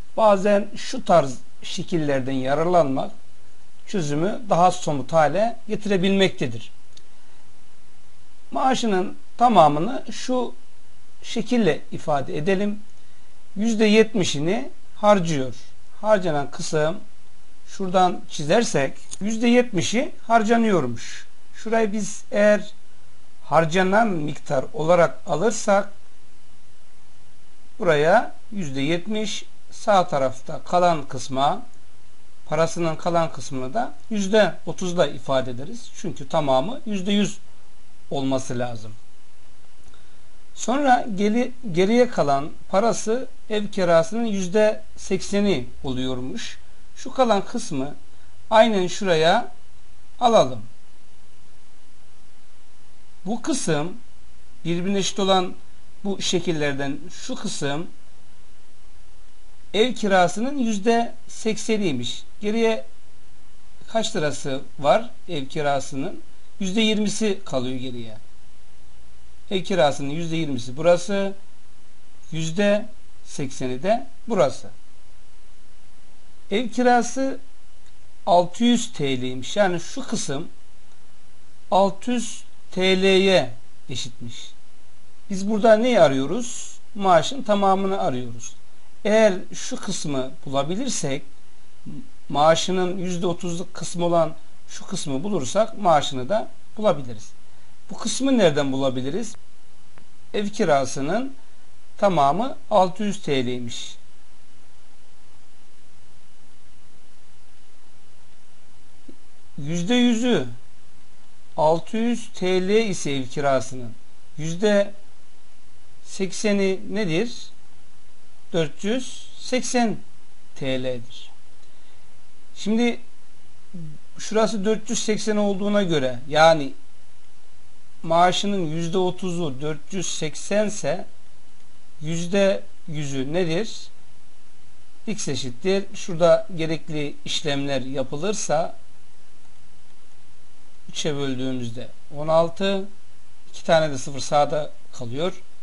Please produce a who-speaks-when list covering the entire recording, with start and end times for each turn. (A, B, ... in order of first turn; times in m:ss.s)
0:00.2-0:03.1 A
0:03.8-0:06.7 A
0:08.5-0:10.6 A
0:11.2-0:12.8 A
0:13.6-0:17.0 A
0:17.7-0:22.7 A
0:23.4-0:25.9 A
0:27.8-0:31.7 A
0:32.5-0:37.4 A
0:38.1-0:39.0 A
0:40.6-0:48.0 A
0:48.5-0:49.5 A
0:50.2-0:50.7 A
0:53.2-0:54.0 A
0:54.6-0:57.9 A
0:59.7-1:02.9 A
1:03.8-1:08.2 A
1:09.5-1:11.4 A
1:12.3-1:14.7 A
1:16.5-1:17.4 A
1:18.3-1:20.5 A
1:21.7-1:24.5 A
1:25.3-1:31.3 A
1:31.9-1:37.3 A
1:37.9-1:39.4 A
1:40.3-1:41.4 A
1:42.0-1:44.0 A
1:49.6-1:50.6 A
1:51.6-1:55.0 A
1:56.0-1:57.5 A
1:58.5-2:00.0 A
2:00.6-2:01.3 A
2:02.6-2:03.0 A
2:03.8-2:06.8 A
2:08.0-2:11.1 A
2:12.0-2:13.9 A
2:15.1-2:18.8 A
2:20.9-2:22.9 A
2:23.5-2:25.4 A